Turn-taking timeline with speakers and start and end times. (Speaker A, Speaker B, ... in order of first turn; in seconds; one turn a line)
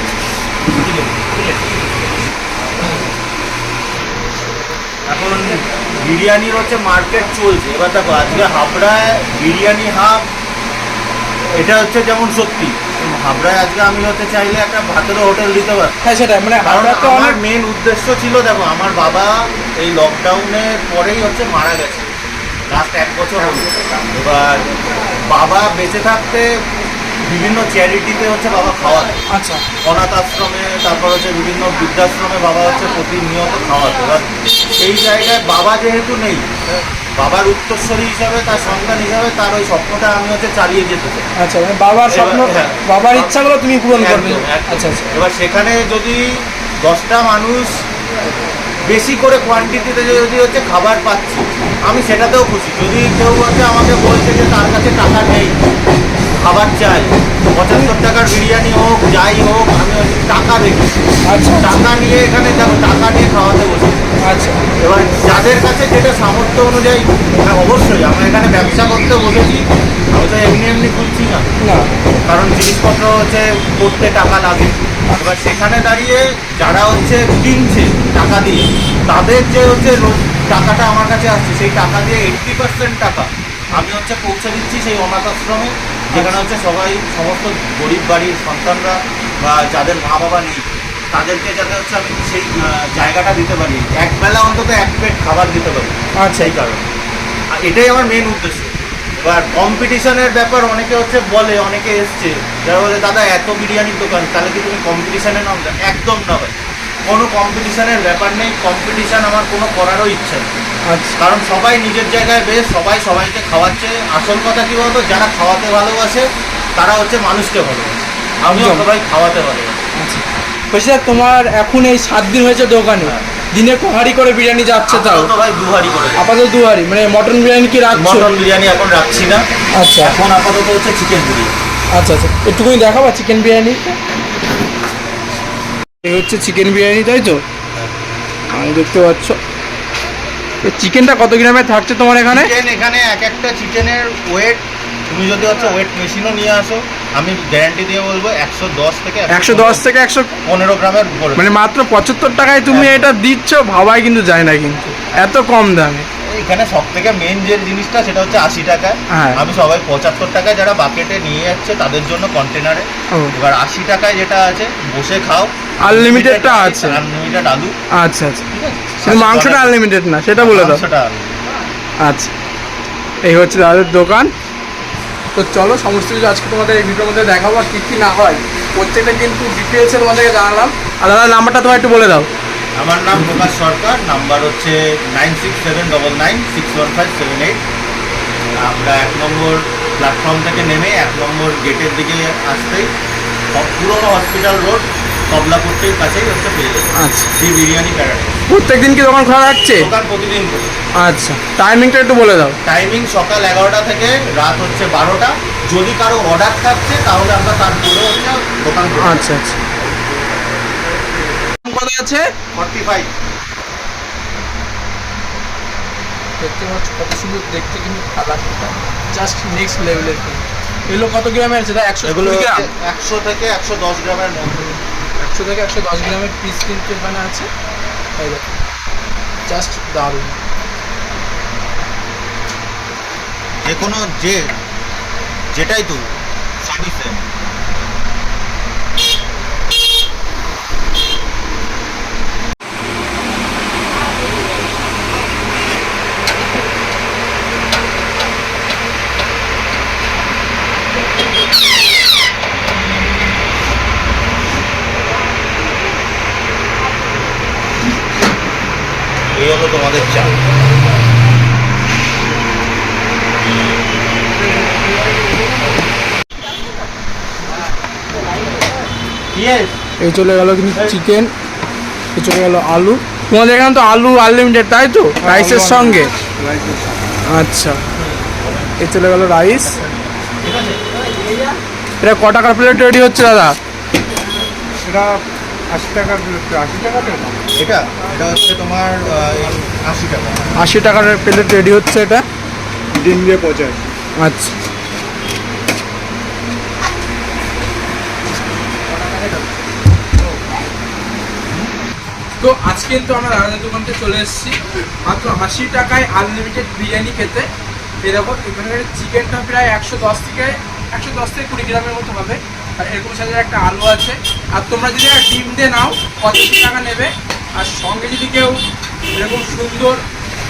Speaker A: 0.7-1.6
Speaker A: 5.1-10.2
Speaker A: 11.6-16.0
Speaker B: 16.0-17.4
Speaker A: 16.6-22.1
Speaker A: 22.7-26.5
Speaker A: 27.2-29.2
Speaker B: 29.3-29.6
Speaker A: 29.8-36.5
Speaker A: 37.2-41.2
Speaker B: 41.4-45.0
Speaker A: 42.1-43.4
Speaker A: 44.0-47.8
Speaker A: 48.8-55.6
Speaker A: 56.3-61.0
Speaker B: 61.3-61.9
Speaker A: 61.6-64.1
Speaker B: 64.2-64.6
Speaker A: 64.8-71.5
Speaker B: 71.6-71.9
Speaker A: 72.3-96.9
Speaker B: 86.1-86.4
Speaker B: 96.2-96.5
Speaker A: 97.5-106.6
Speaker A: 107.1-110.5
Speaker B: 110.9-111.2
Speaker A: 111.2-116.3
Speaker A: 116.8-119.8
Speaker B: 118.5-118.9
Speaker B: 120.0-125.3
Speaker A: 124.9-126.2
Speaker B: 126.2-128.3
Speaker A: 127.9-129.4
Speaker B: 129.7-130.2
Speaker A: 130.0-131.5
Speaker B: 131.9-134.0
Speaker B: 136.0-137.4
Speaker B: 138.5-139.4
Speaker B: 140.6-142.5
Speaker A: 142.3-149.8
Speaker B: 149.3-150.3
Speaker A: 150.4-151.4
Speaker B: 151.4-156.1
Speaker A: 152.7-153.1
Speaker A: 156.3-167.7
Speaker B: 159.1-159.4
Speaker B: 165.8-167.0
Speaker B: 167.9-168.4
Speaker A: 168.5-169.8
Speaker B: 169.0-170.8
Speaker A: 170.4-171.3
Speaker B: 172.0-172.3
Speaker B: 173.2-174.3
Speaker B: 175.3-182.3
Speaker A: 182.8-187.6
Speaker A: 188.6-192.9
Speaker A: 193.5-198.3
Speaker B: 197.0-197.3
Speaker B: 198.5-199.9
Speaker A: 199.8-200.7
Speaker B: 201.0-202.6
Speaker A: 202.7-209.3
Speaker B: 209.0-209.6
Speaker B: 211.6-212.3
Speaker A: 212.5-213.1
Speaker B: 216.4-222.7
Speaker A: 222.0-224.8
Speaker B: 225.2-227.5
Speaker B: 228.2-228.4
Speaker B: 229.5-230.4
Speaker A: 233.6-234.4
Speaker A: 235.5-236.0
Speaker A: 236.6-237.2
Speaker A: 259.4-260.4
Speaker A: 269.3-269.8
Speaker B: 270.0-271.3
Speaker B: 272.1-276.1
Speaker C: 275.2-277.1
Speaker B: 277.3-277.8
Speaker A: 277.9-280.8
Speaker B: 278.8-279.8
Speaker B: 282.0-283.6
Speaker C: 284.8-287.4
Speaker A: 287.5-290.5
Speaker B: 290.6-292.2
Speaker C: 292.9-293.9
Speaker B: 294.2-294.5
Speaker B: 298.9-299.5
Speaker B: 302.4-307.5
Speaker B: 308.0-320.0